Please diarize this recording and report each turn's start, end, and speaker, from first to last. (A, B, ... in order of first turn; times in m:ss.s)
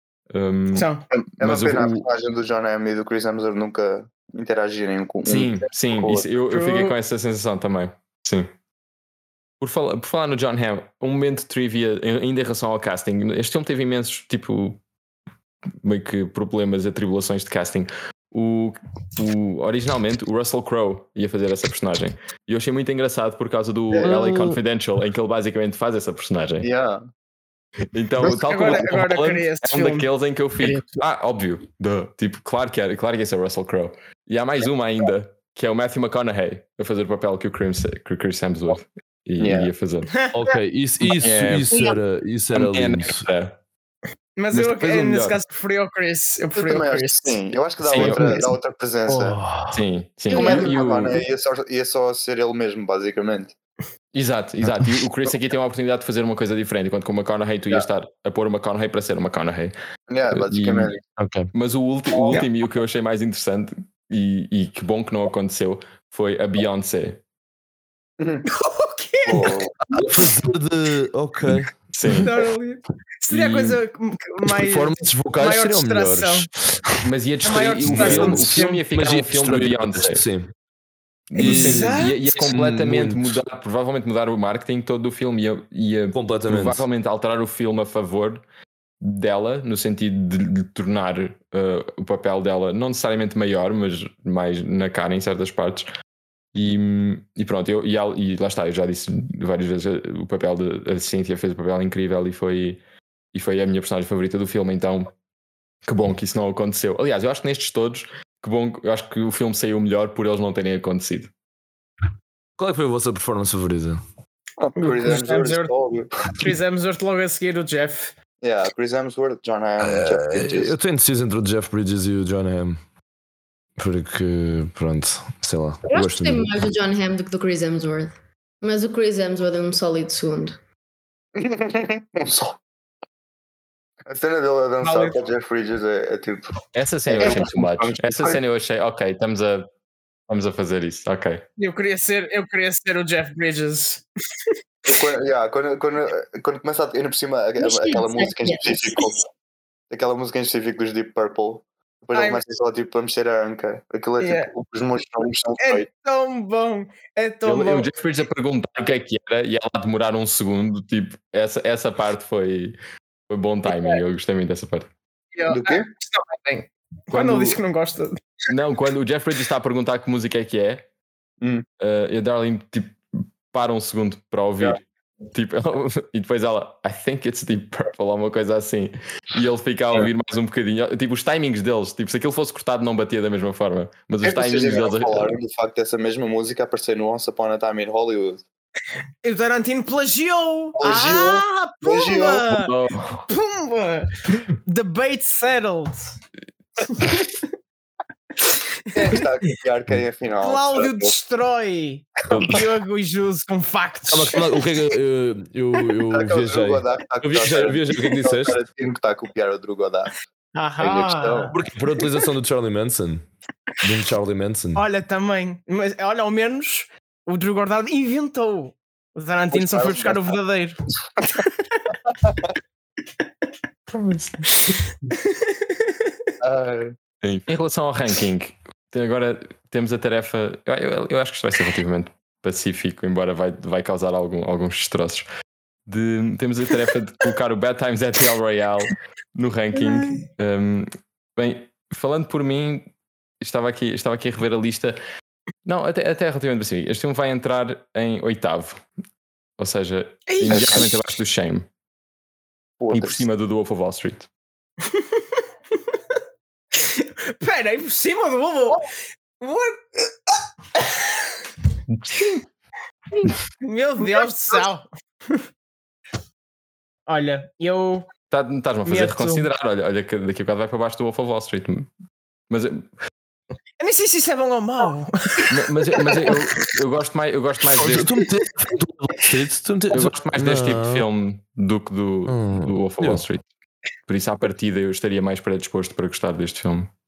0:00.3-0:00.9 A
0:00.7-0:01.0 B
0:01.1-0:06.3 C
0:01.4-0:02.0 A
0:05.2-0:08.5 A
0:06.5-0:07.0 B
0:09.6-0:14.8 A
0:15.8-0:26.7 A
0:24.0-0:24.6 D
0:26.6-0:27.0 C
0:27.9-0:40.3 A
0:28.3-0:30.1 B
0:30.6-0:31.0 D
0:39.4-0:39.7 C
0:40.2-0:40.6 B
0:40.3-0:43.2 D
0:41.1-0:41.8 A
0:42.5-0:43.6 A
0:44.4-0:47.4 B
0:44.5-0:45.3 A
0:44.7-0:45.2 D
0:46.5-0:49.4 C
0:47.9-0:48.4 A
0:47.9-0:48.4 B
0:49.1-0:49.8 D
0:49.7-0:51.2 A
0:50.3-0:53.5 C
0:50.3-0:50.7 B
0:54.1-0:59.7 A
1:00.1-1:01.0 C
1:00.3-1:01.0 A
1:01.2-1:01.5 D
1:01.5-1:07.2 A
1:02.1-1:02.4 C
1:08.2-1:08.4 C
1:08.4-1:09.9 B
1:09.2-1:09.7 C
1:09.8-1:12.3 D
1:11.9-1:12.3 A
1:12.2-1:16.5 B
1:13.3-1:13.8 A
1:14.5-1:17.1 D
1:17.0-1:20.2 A
1:17.4-1:18.8 B
1:17.8-1:20.5 D
1:21.3-1:28.4 A
1:21.4-1:22.2 B
1:21.4-1:23.4 D
1:26.1-1:26.8 D
1:29.0-1:35.8 A
1:36.5-1:42.8 A
1:43.3-1:45.1 A
1:45.8-1:51.3 A
1:52.6-1:54.0 D
1:54.6-1:56.3 C
1:54.8-1:55.7 B
1:56.3-1:58.1 B
1:58.4-2:00.7 C
1:59.8-2:02.8 D
2:03.8-2:06.6 D
2:05.9-2:10.6 E
2:11.3-2:12.6 C
2:14.0-2:16.5 C
2:14.8-2:15.2 B
2:16.7-2:19.7 A
2:17.1-2:18.4 C
2:20.3-2:21.4 A
2:21.6-2:24.5 B
2:24.9-2:29.2 C
2:27.6-2:29.1 E
2:29.9-2:35.9 C
2:32.1-2:32.4 B
2:34.2-2:34.5 B
2:35.6-2:37.9 B
2:37.4-2:42.8 A
2:43.3-2:44.9 A
2:43.7-2:44.0 B
2:45.3-2:48.2 B
2:45.5-2:45.9 C
2:47.1-2:47.6 A
2:48.5-2:50.8 A
2:51.8-3:05.3 A
3:04.2-3:08.4 C
3:09.2-3:12.7 B
3:10.8-3:12.5 C
3:12.5-3:13.3 A
3:13.3-3:16.2 B
3:16.9-3:17.4 B
3:18.4-3:19.5 B
3:18.9-3:21.1 C
3:20.4-3:24.6 B
3:22.3-3:22.7 A
3:24.1-3:28.6 D
3:26.1-3:30.1 C
3:30.5-3:32.0 B
3:30.8-3:31.5 C
3:31.5-3:33.2 D
3:33.8-3:34.8 D
3:34.7-3:41.5 B
3:39.5-3:40.4 C
3:42.1-3:42.5 C
3:43.9-3:44.3 A
3:44.7-3:45.5 B
3:46.4-3:46.9 C
3:47.2-3:55.2 A
3:55.9-4:05.0 A
3:59.7-4:00.3 B
4:05.6-4:08.8 A
4:09.6-4:11.6 A
4:10.3-4:10.8 B
4:10.4-4:10.9 C
4:12.8-4:13.3 C
4:12.9-4:14.3 A
4:16.7-4:21.0 B
4:21.9-4:22.4 A
4:23.6-4:25.4 B
4:27.1-4:28.1 B
4:28.3-4:31.9 A
4:28.8-4:29.5 B
4:32.5-4:32.9 A
4:33.8-4:36.7 B
4:35.5-4:38.2 A
4:37.7-4:41.0 D
4:39.9-4:43.4 A
4:42.3-4:43.2 D
4:44.1-4:46.9 A